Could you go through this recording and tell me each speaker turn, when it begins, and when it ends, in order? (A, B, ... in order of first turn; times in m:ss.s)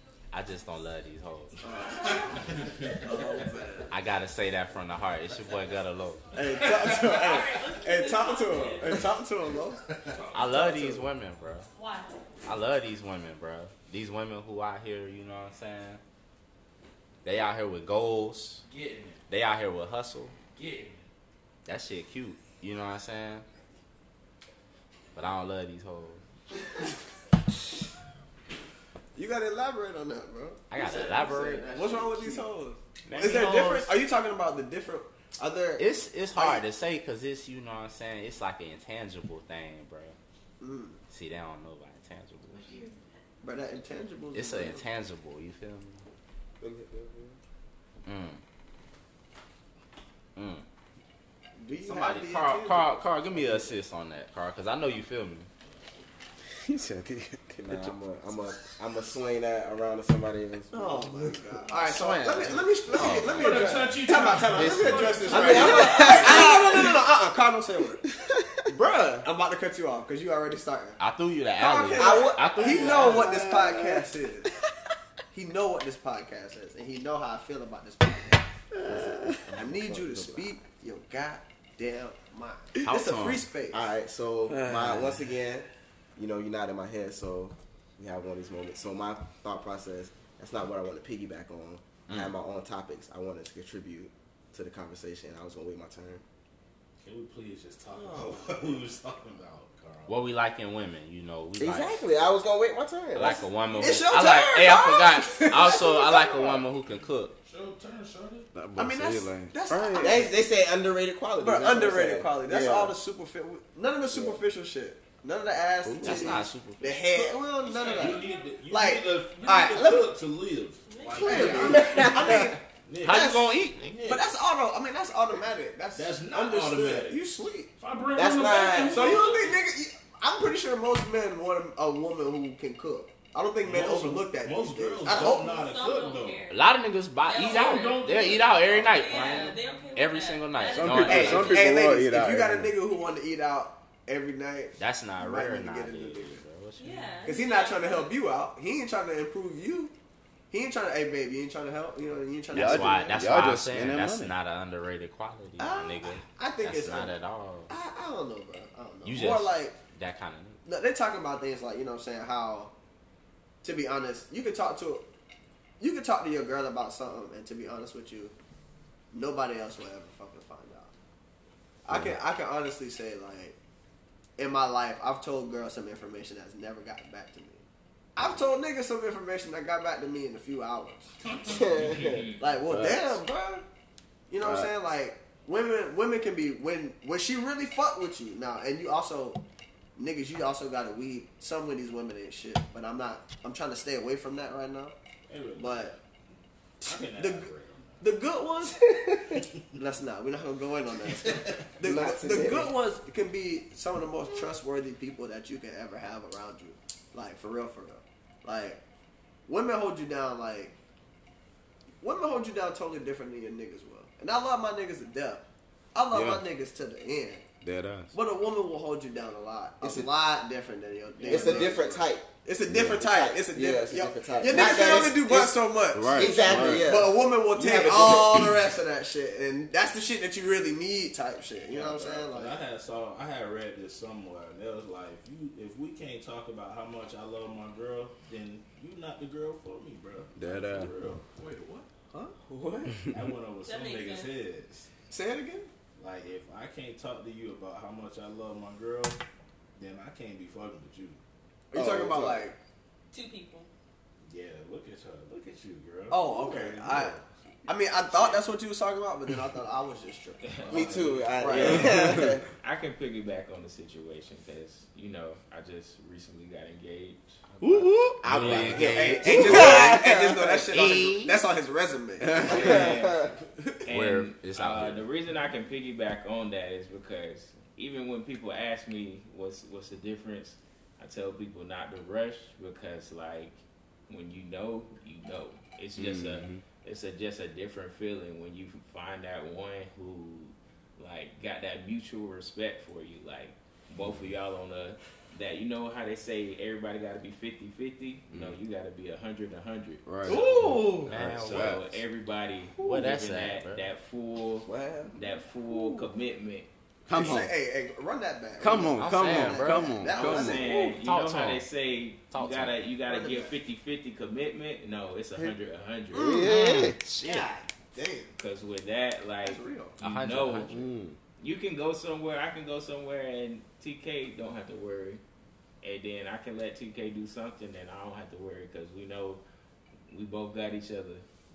0:00.3-0:01.6 A
0:01.6-0:03.9 B
0:01.8-0:02.6 C
0:03.9-0:06.2 A
0:06.3-0:09.9 B
0:06.5-0:06.9 D
0:06.9-0:09.0 C
0:10.1-0:10.7 D
0:10.3-0:11.7 A
0:10.5-0:11.0 B
0:11.7-0:12.1 C
0:12.4-0:16.0 A
0:17.2-0:18.6 A
0:18.6-0:19.2 D
0:19.3-0:20.4 A
0:20.6-0:21.0 D
0:21.6-0:23.4 A
0:25.1-0:26.2 A
0:29.1-0:36.6 B
0:30.7-0:32.1 A
0:33.0-0:33.9 A
0:35.8-0:40.2 A
0:40.6-0:41.0 B
0:41.1-0:42.8 A
0:42.6-0:43.0 C
0:43.4-0:44.9 B
0:44.3-0:46.0 A
0:46.6-0:47.4 E
0:48.0-0:48.4 A
0:50.4-0:50.6 A
0:51.6-0:53.7 B
0:51.8-0:55.5 A
0:56.6-0:57.9 F
0:57.6-1:01.1 E
1:00.7-1:08.0 B
1:01.7-1:03.7 A
1:03.2-1:06.4 D
1:04.5-1:06.2 A
1:05.3-1:06.8 E
1:08.7-1:09.2 E
1:09.2-1:11.0 B
1:11.0-1:13.3 A
1:11.6-1:14.5 B
1:11.9-1:13.3 E
1:13.2-1:13.7 F
1:15.3-1:23.9 B
1:19.6-1:20.4 E
1:19.8-1:20.3 A
1:22.8-1:23.4 A
1:23.7-1:36.2 E
1:24.5-1:25.2 F
1:32.1-1:32.3 A
1:37.0-1:40.2 G
1:40.1-1:42.1 A
1:41.6-1:43.4 E
1:43.1-1:47.3 A
1:43.7-1:46.6 B
1:47.5-1:48.5 D
1:48.5-1:50.3 F
1:48.8-1:50.4 B
1:50.0-1:52.8 E
1:51.4-2:00.1 B
1:52.2-1:52.9 F
1:54.1-1:54.4 E
1:55.8-1:56.3 F
1:56.0-1:57.1 A
1:57.6-2:04.3 G
1:57.7-1:58.2 D
1:58.1-1:58.4 C
2:00.8-2:01.7 C
2:01.1-2:03.3 B
2:01.3-2:02.1 D
2:03.0-2:03.9 A
2:04.0-2:07.7 B
2:05.9-2:07.2 G
2:07.8-2:09.6 D
2:08.1-2:09.2 E
2:08.9-2:15.5 B
2:13.6-2:16.5 G
2:15.1-2:16.6 C
2:16.5-2:21.6 A
2:17.2-2:18.1 C
2:17.3-2:19.6 D
2:18.8-2:21.7 C
2:20.7-2:22.7 F
2:21.0-2:26.4 B
2:24.8-2:27.2 A
2:26.8-2:28.1 C
2:27.2-2:29.9 B
2:30.5-2:33.2 B
2:32.5-2:34.3 F
2:32.5-2:37.7 A
2:35.6-2:37.2 B
2:37.7-2:39.8 B
2:39.0-2:40.6 A
2:40.6-2:42.7 B
2:43.6-2:45.1 B
2:45.8-2:48.3 B
2:49.1-2:50.9 B
2:51.8-2:53.6 B
2:54.4-2:57.6 B
2:58.2-3:01.1 B
3:01.5-3:02.2 E
3:02.0-3:02.4 H
3:02.4-3:03.6 B
3:02.6-3:03.2 F
3:04.3-3:09.4 B
3:04.4-3:04.7 F
3:10.0-3:14.9 B
3:15.3-3:16.0 G
3:15.6-3:15.9 B
3:16.8-3:17.5 B
3:16.8-3:18.1 G
3:18.0-3:28.8 B
3:21.0-3:21.6 G
3:21.8-3:22.7 E
3:29.5-3:30.8 B
3:32.0-3:37.5 B
3:36.1-3:36.4 F
3:37.6-3:38.1 F
3:38.1-3:52.6 B
3:39.8-3:40.1 E
3:41.2-3:41.6 D
3:41.2-3:45.6 E
3:45.9-3:47.0 F
3:46.1-3:48.6 E
3:51.7-4:01.2 G
4:00.4-4:00.9 F
4:01.3-4:01.9 D
4:02.1-4:03.0 B
4:03.1-4:04.9 G
4:03.6-4:04.3 C
4:05.1-4:05.7 B
4:06.0-4:09.2 G
4:09.8-4:11.2 G
4:11.7-4:12.5 E
4:11.7-4:12.6 B
4:13.1-4:13.7 C
4:14.3-4:17.3 G
4:16.1-4:20.6 B
4:18.0-4:18.4 G
4:20.6-4:21.9 G
4:20.7-4:22.4 E
4:21.4-4:22.4 B
4:22.6-4:29.1 H
4:27.6-4:28.7 F
4:28.1-4:30.1 A
4:28.7-4:33.8 B
4:28.9-4:30.6 E
4:29.3-4:30.0 F
4:30.7-4:31.4 A
4:32.3-4:32.6 F
4:32.5-5:00.5 H
4:33.9-4:35.0 A
4:46.0-4:46.6 F
5:00.0-5:01.9 F
5:00.2-5:01.1 B
5:01.0-5:01.7 A
5:01.1-5:06.7 H
5:02.8-5:03.8 A
5:04.7-5:05.1 E
5:07.1-5:07.5 F
5:07.1-5:10.9 B
5:08.6-5:10.8 F
5:09.0-5:09.8 A
5:10.1-5:16.4 H
5:11.0-5:11.7 A
5:12.3-5:12.8 A
5:13.1-5:13.6 B
5:16.1-5:16.6 B
5:16.1-5:17.0 F
5:16.4-5:17.5 A
5:17.2-5:18.3 B
5:18.4-5:20.8 H
5:19.4-5:20.0 B
5:20.0-5:20.8 A
5:20.7-5:21.2 F
5:21.4-5:25.2 H
5:25.8-5:29.4 H
5:30.1-5:31.2 H